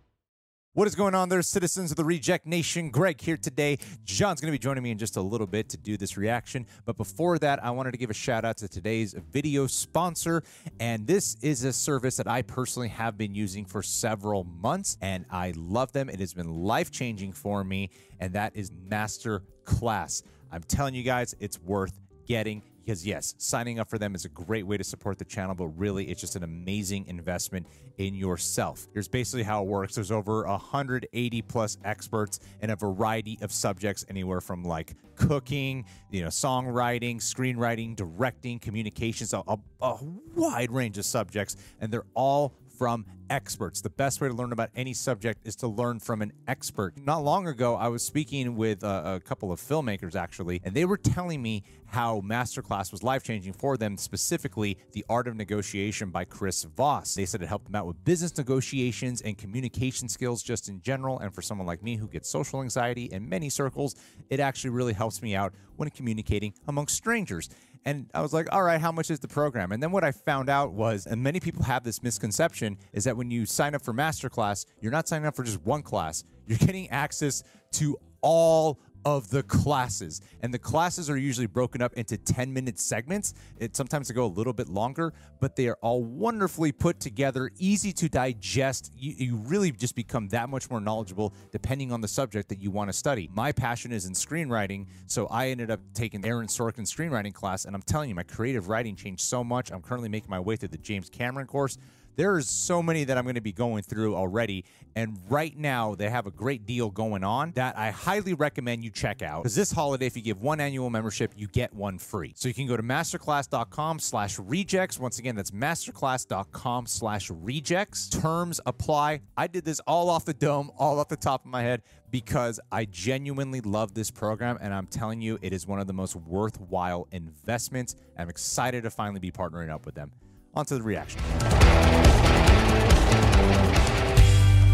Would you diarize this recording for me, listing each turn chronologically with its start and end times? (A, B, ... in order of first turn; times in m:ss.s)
0:00.7-2:11.4 A